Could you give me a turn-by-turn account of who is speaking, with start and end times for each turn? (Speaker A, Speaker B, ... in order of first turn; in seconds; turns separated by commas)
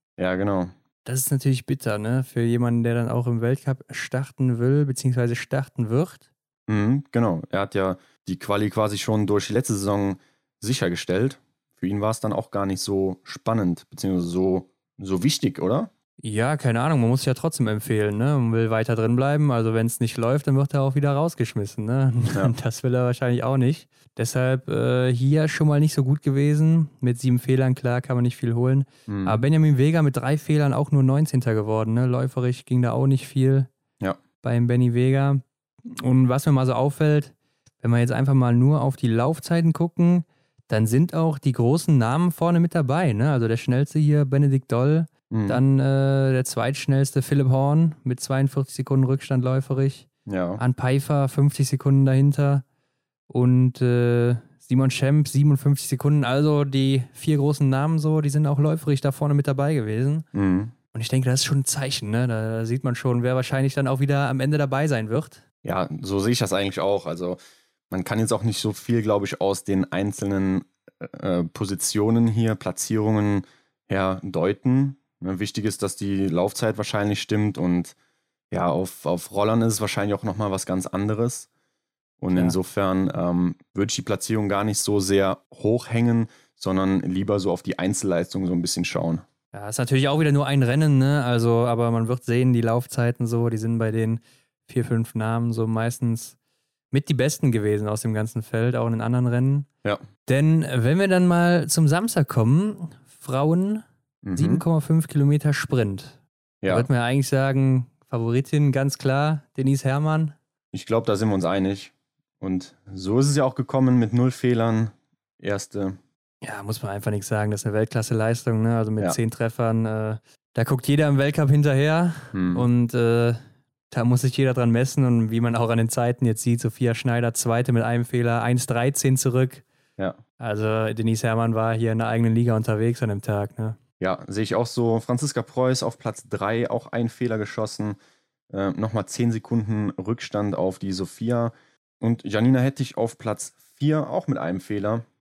Speaker A: 0.2-0.7, Speaker B: 1.1-6.2, Speaker A: 6.7-15.9, Speaker B: 16.2-33.7, Speaker A: 29.1-29.4, Speaker B: 34.4-52.6, Speaker A: 45.3-45.6, Speaker A: 50.3-50.6, Speaker B: 53.3-60.2, Speaker A: 60.3-60.7, Speaker B: 60.9-65.4, Speaker A: 65.6-67.4, Speaker A: 67.9-78.0, Speaker A: 78.5-81.5, Speaker A: 82.2-89.2, Speaker B: 82.3-82.6, Speaker B: 89.5-96.4, Speaker B: 96.9-99.7, Speaker B: 100.3-110.4, Speaker A: 104.2-104.6, Speaker A: 106.6-106.9, Speaker A: 110.7-116.0, Speaker B: 116.4-129.6, Speaker A: 122.3-122.7, Speaker B: 130.4-133.8, Speaker A: 134.0-138.0, Speaker A: 138.5-145.1